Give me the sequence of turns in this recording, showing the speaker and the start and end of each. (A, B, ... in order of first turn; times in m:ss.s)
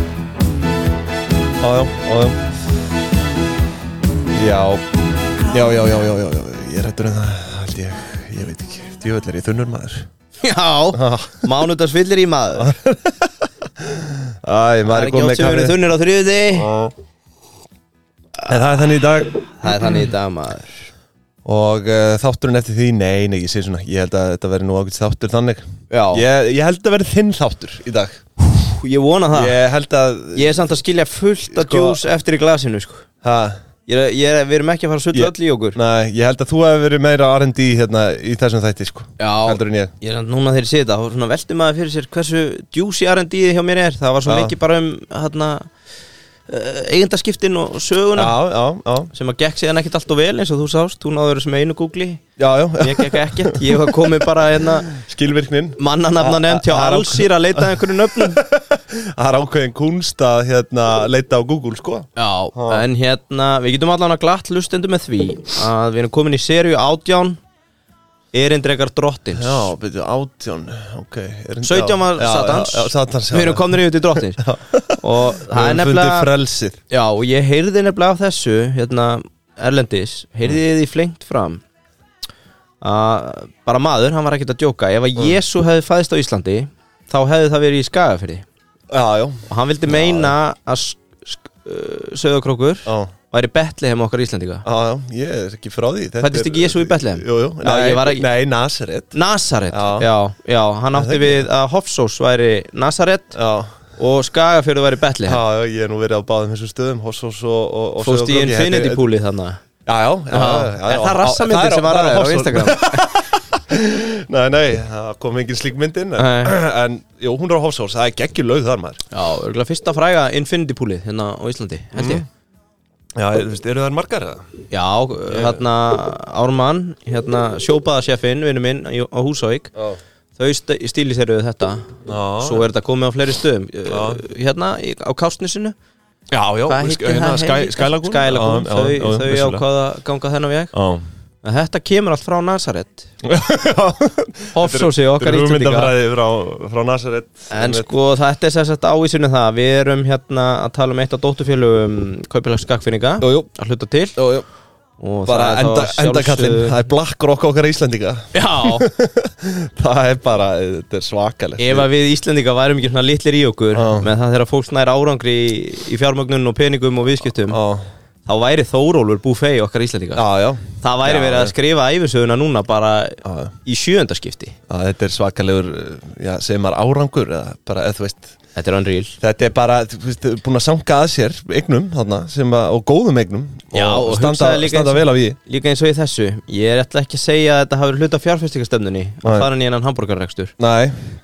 0:01.6-0:02.4 A
0:04.3-0:04.8 A
0:05.5-0:10.1 A
0:10.4-0:12.8 B
0:10.9-0:11.5 A
0:12.6-0:15.8 A
0:14.9-0:16.7 B
0:16.5-0:16.9 A
0:18.5-0:20.0 A
0:19.0-0:20.9 B
0:21.4-0:28.2 A
0:25.9-0:26.2 B
0:28.5-0:29.6 B
0:29.3-0:30.7 A
0:30.4-0:33.1 B
0:31.5-0:32.0 A
0:33.2-0:33.6 A
0:33.9-0:35.8 B
0:35.1-0:39.9 A
0:39.2-0:45.7 B
0:44.3-0:44.6 A
0:46.5-0:48.4 B
0:48.2-0:49.1 A
0:49.1-0:52.2 B
0:52.4-1:02.8 A
0:52.8-0:54.9 B
0:55.8-0:58.4 B
1:02.2-1:07.4 B
1:08.3-1:09.7 B
1:09.4-1:13.8 A
1:11.6-1:16.3 B
1:14.4-1:16.8 A
1:16.9-1:21.6 B
1:22.8-1:28.4 B
1:28.9-1:30.3 A
1:29.5-1:34.6 B
1:32.9-1:33.1 A
1:34.6-1:39.2 A
1:36.2-1:38.3 B
1:39.1-1:43.4 B
1:39.7-1:40.1 A
1:40.9-1:41.5 A
1:43.3-1:43.7 A
1:44.0-1:45.4 B
1:45.3-1:49.0 A
1:48.0-1:49.6 B
1:49.8-1:59.0 A
1:50.3-1:53.2 B
1:56.2-1:56.5 B
1:59.1-2:02.3 B
2:02.0-2:02.2 A
2:03.2-2:04.5 A
2:04.7-2:09.7 B
2:05.3-2:05.6 A
2:10.4-2:15.8 B
2:12.1-2:12.7 A
2:13.9-2:14.2 A
2:16.3-2:19.6 A
2:16.7-2:20.7 B
2:20.7-2:21.0 A
2:21.4-2:23.1 B
2:23.2-2:27.9 A
2:24.5-2:26.0 B
2:27.5-2:34.2 B
2:33.2-2:33.5 A
2:34.2-2:34.5 A
2:35.0-2:36.8 B
2:35.3-2:41.9 A
2:38.3-2:38.9 B
2:41.6-2:47.6 B
2:43.7-2:44.1 A
2:47.5-2:47.9 A
2:48.3-2:50.2 B
2:50.2-2:51.6 A
2:50.8-2:54.6 B
2:53.2-2:53.5 A
2:54.7-2:58.3 A
2:58.6-2:59.2 B
2:59.2-3:05.4 A
3:03.7-3:10.5 B
3:09.2-3:09.5 A
3:10.6-3:11.0 A